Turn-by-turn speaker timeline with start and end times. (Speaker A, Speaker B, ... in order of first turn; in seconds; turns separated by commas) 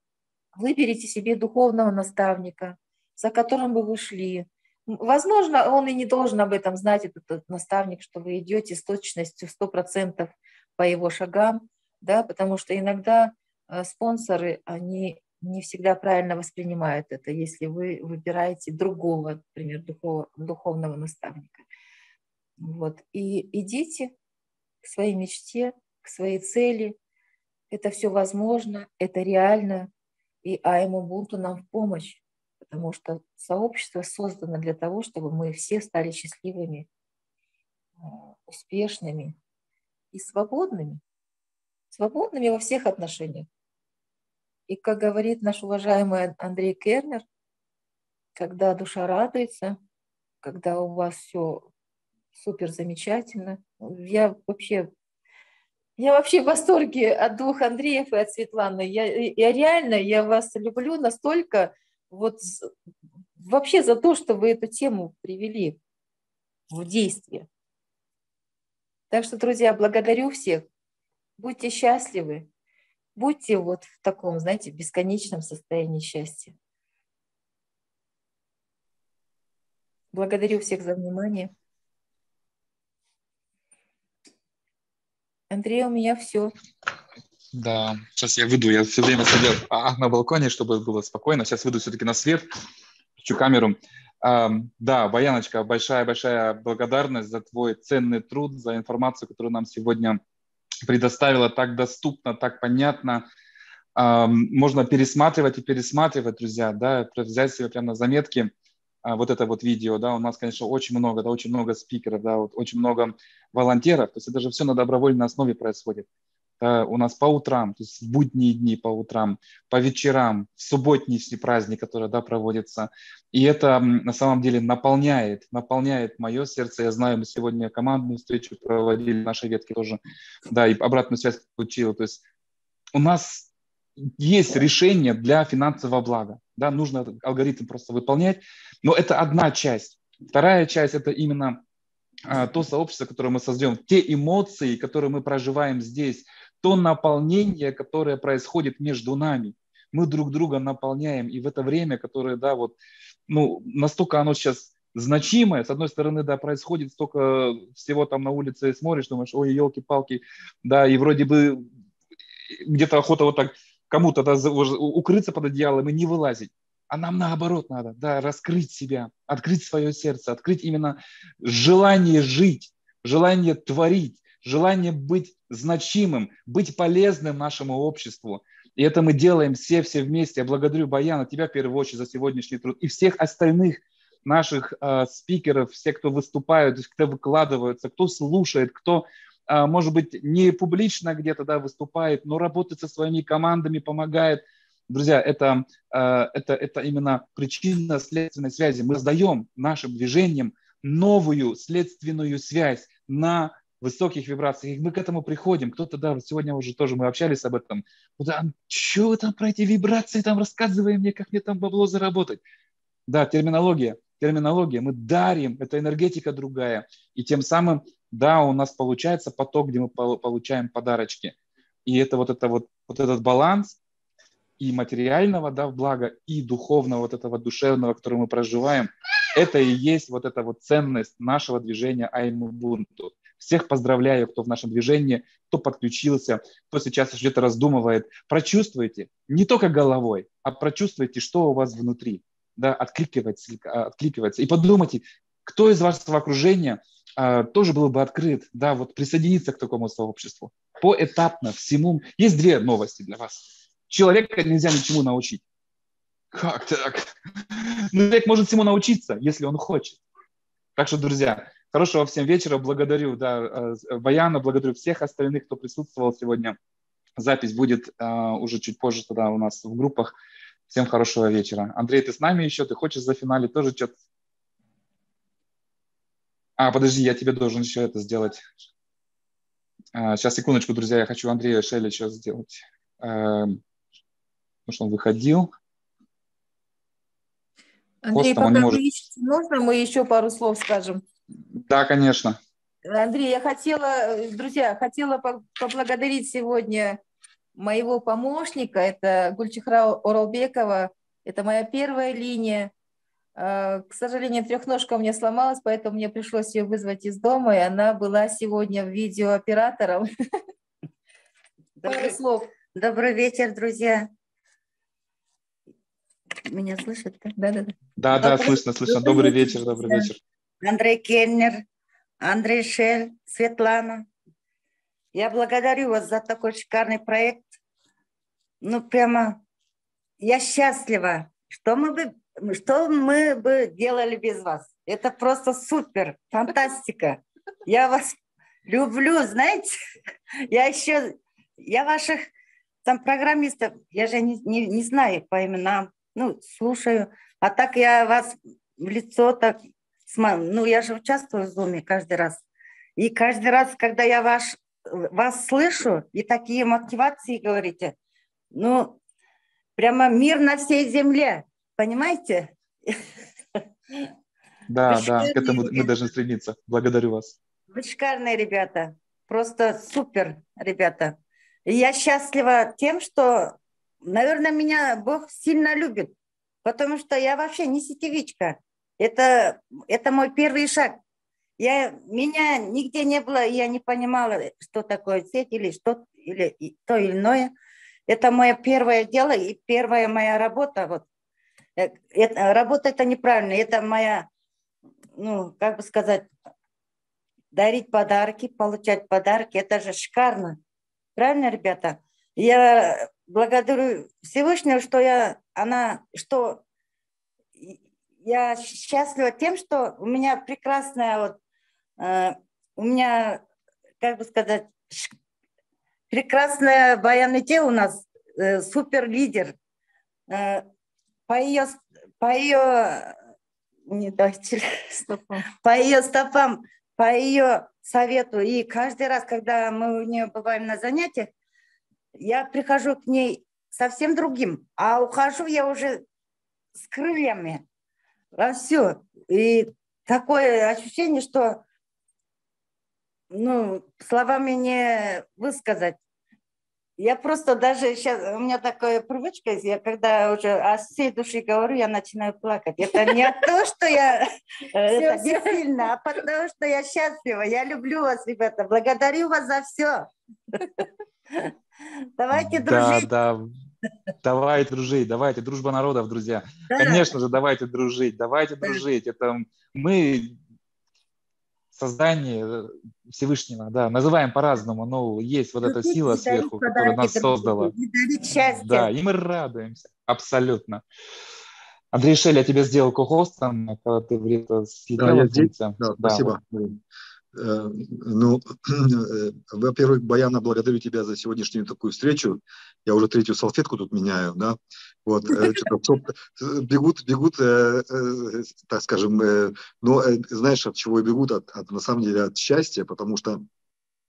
Speaker A: 0.6-21.6, Speaker A: 22.6-24.1, Speaker A: 24.8-26.9, Speaker A: 27.7-29.9, Speaker A: 30.4-36.9, Speaker A: 38.0-39.4, Speaker A: 40.1-41.0, Speaker A: 41.9-43.5, Speaker A: 44.7-47.2, Speaker A: 48.4-49.8, Speaker A: 50.4-51.7, Speaker A: 52.4-54.9, Speaker A: 56.0-62.7, Speaker A: 63.4-65.8, Speaker A: 66.7-67.5, Speaker A: 69.1-70.7, Speaker A: 71.4-72.5, Speaker A: 73.2-76.5, Speaker A: 80.1-81.5, Speaker A: 85.5-86.5, Speaker B: 87.5-92.5, Speaker B: 93.2-100.2, Speaker B: 100.9-103.2, Speaker B: 104.0-108.5, Speaker B: 109.0-116.1, Speaker B: 116.6-130.0, Speaker B: 130.5-132.2, Speaker B: 132.9-133.5, Speaker B: 134.1-141.6, Speaker B: 142.3-152.8, Speaker B: 153.3-161.7, Speaker B: 162.6-212.4, Speaker B: 213.1-221.3, Speaker B: 221.9-223.8, Speaker B: 224.6-255.4, Speaker B: 256.3-260.0, Speaker B: 260.8-266.6, Speaker B: 267.2-270.1, Speaker B: 270.7-273.9, Speaker B: 276.6-278.4, Speaker B: 279.9-283.6, Speaker B: 284.7-285.5, Speaker A: 288.0-291.0, Speaker B: 288.1-288.8, Speaker B: 291.5-292.4, Speaker A: 292.9-297.0, Speaker A: 297.6-302.7, Speaker A: 303.4-310.1, Speaker C: 311.8-312.2, Speaker A: 311.9-312.5, Speaker C: 312.7-314.1, Speaker C: 316.5-317.3, Speaker A: 317.3-317.7, Speaker B: 318.0-320.2, Speaker C: 318.2-320.1, Speaker C: 320.6-321.6, Speaker C: 322.2-324.1, Speaker C: 325.1-327.5, Speaker C: 328.6-329.4, Speaker C: 330.2-338.1, Speaker C: 338.7-339.7, Speaker C: 340.5-342.3, Speaker C: 342.9-352.4, Speaker C: 353.0-357.9, Speaker C: 358.5-359.0, Speaker C: 359.8-362.9, Speaker B: 364.7-367.4, Speaker C: 364.9-365.9, Speaker C: 367.7-376.1, Speaker C: 376.6-381.0, Speaker C: 381.6-387.5, Speaker C: 388.1-391.1, Speaker C: 391.8-394.3, Speaker C: 395.2-396.3, Speaker C: 397.5-400.6, Speaker C: 401.2-406.6, Speaker C: 407.6-411.4, Speaker C: 412.0-413.4, Speaker C: 414.0-415.1, Speaker C: 416.1-419.6, Speaker C: 420.3-420.7, Speaker C: 421.3-423.2, Speaker C: 423.9-431.3, Speaker A: 425.0-425.5, Speaker C: 432.1-436.1, Speaker C: 436.8-437.6, Speaker C: 438.4-441.6, Speaker C: 443.3-446.0, Speaker C: 447.0-454.2, Speaker C: 454.7-460.1, Speaker C: 462.2-463.1, Speaker B: 462.4-463.5, Speaker B: 464.2-470.4, Speaker C: 466.7-467.1, Speaker B: 471.7-477.7, Speaker C: 475.6-478.9, Speaker B: 478.6-480.8, Speaker B: 481.9-486.3, Speaker D: 485.0-486.8, Speaker D: 487.3-503.4